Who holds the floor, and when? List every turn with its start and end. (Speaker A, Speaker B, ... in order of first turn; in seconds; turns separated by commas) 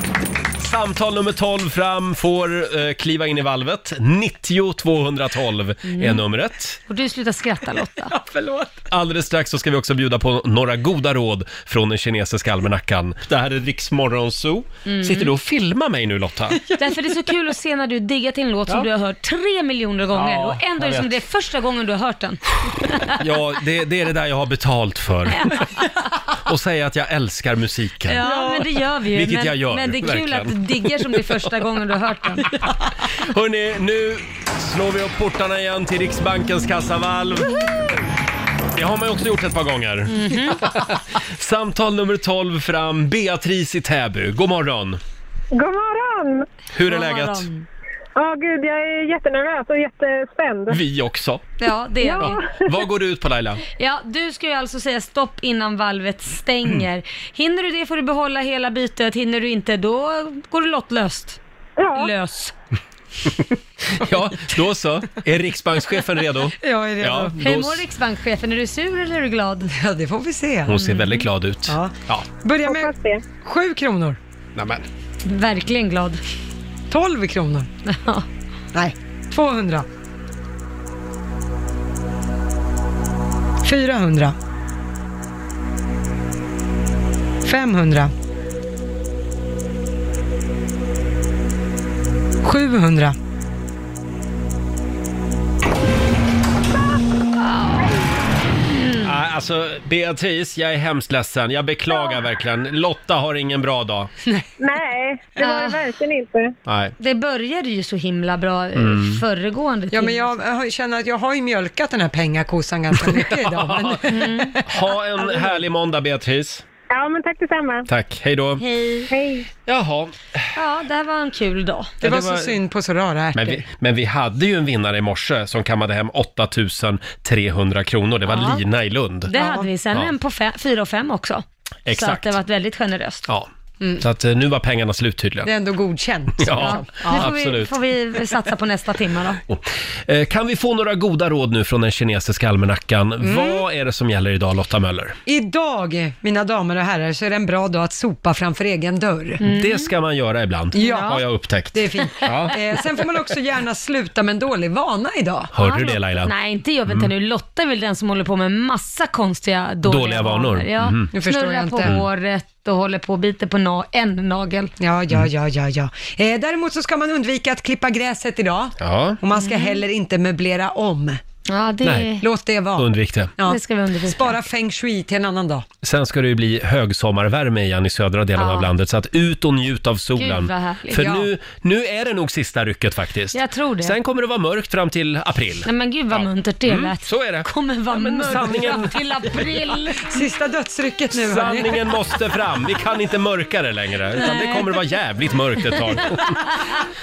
Speaker A: 0.6-6.8, Speaker B: 5.9-6.2, Speaker B: 6.9-8.1, Speaker C: 8.1-8.8, Speaker A: 8.9-16.6, Speaker B: 14.9-15.3, Speaker B: 16.7-23.2, Speaker A: 20.1-21.1, Speaker A: 23.1-25.7, Speaker B: 25.3-26.1, Speaker A: 26.4-28.2, Speaker B: 28.1-32.7, Speaker C: 28.2-28.6, Speaker A: 29.1-31.4, Speaker A: 33.0-38.0, Speaker A: 38.8-45.0, Speaker B: 40.1-40.9, Speaker D: 45.5-46.5, Speaker A: 46.7-47.5, Speaker B: 46.9-47.7, Speaker D: 48.2-50.8, Speaker A: 50.7-51.5, Speaker B: 51.6-52.4, Speaker D: 52.0-52.8, Speaker A: 52.2-53.6, Speaker B: 53.8-61.4, Speaker D: 61.8-62.1, Speaker B: 62.0-62.5, Speaker A: 63.3-67.8, Speaker C: 66.6-67.3, Speaker B: 67.4-69.7, Speaker C: 69.7-70.8, Speaker A: 70.7-72.3, Speaker B: 70.8-71.2, Speaker C: 71.7-74.2, Speaker D: 72.6-73.2, Speaker A: 74.6-74.8, Speaker B: 75.2-76.2, Speaker C: 76.9-77.7, Speaker B: 77.9-78.3, Speaker C: 78.7-79.9, Speaker C: 83.6-84.3, Speaker C: 87.4-88.1, Speaker C: 92.4-93.2, Speaker B: 97.5-97.9, Speaker B: 98.7-99.1, Speaker A: 99.0-104.1, Speaker D: 104.6-106.5, Speaker B: 105.4-105.8, Speaker A: 106.7-107.0, Speaker B: 107.0-110.4, Speaker A: 108.8-109.2, Speaker C: 109.9-114.8, Speaker A: 113.0-116.6, Speaker B: 114.1-114.6, Speaker D: 116.9-117.9, Speaker A: 117.9-118.6, Speaker B: 118.6-119.1, Speaker D: 119.1-119.5, Speaker A: 119.7-120.5, Speaker B: 120.5-122.0, Speaker A: 122.0-122.5, Speaker C: 122.0-123.6, Speaker A: 123.4-129.3, Speaker B: 128.3-128.6, Speaker B: 129.3-133.3, Speaker C: 129.3-129.7, Speaker A: 131.9-132.3, Speaker A: 133.3-135.5, Speaker C: 135.4-137.0, Speaker A: 136.4-137.7, Speaker B: 136.6-139.4, Speaker A: 139.5-145.2, Speaker C: 143.2-143.6, Speaker C: 145.3-149.4, Speaker B: 149.4-149.9, Speaker A: 149.4-152.6, Speaker B: 150.7-151.2, Speaker C: 150.7-155.5, Speaker A: 155.5-156.3, Speaker B: 155.6-164.7, Speaker A: 159.9-161.1, Speaker C: 161.1-161.9, Speaker C: 164.8-171.2, Speaker A: 168.8-169.2, Speaker B: 169.4-169.8, Speaker B: 171.5-172.3, Speaker A: 171.8-172.1, Speaker C: 172.2-175.7, Speaker A: 172.8-173.3, Speaker B: 173.5-174.4, Speaker A: 175.8-189.4, Speaker B: 178.4-178.7, Speaker B: 180.2-181.1, Speaker C: 181.0-181.3, Speaker B: 183.3-184.0, Speaker B: 185.7-190.1, Speaker C: 190.1-191.7, Speaker A: 191.1-196.5, Speaker B: 194.2-194.8, Speaker B: 195.8-196.2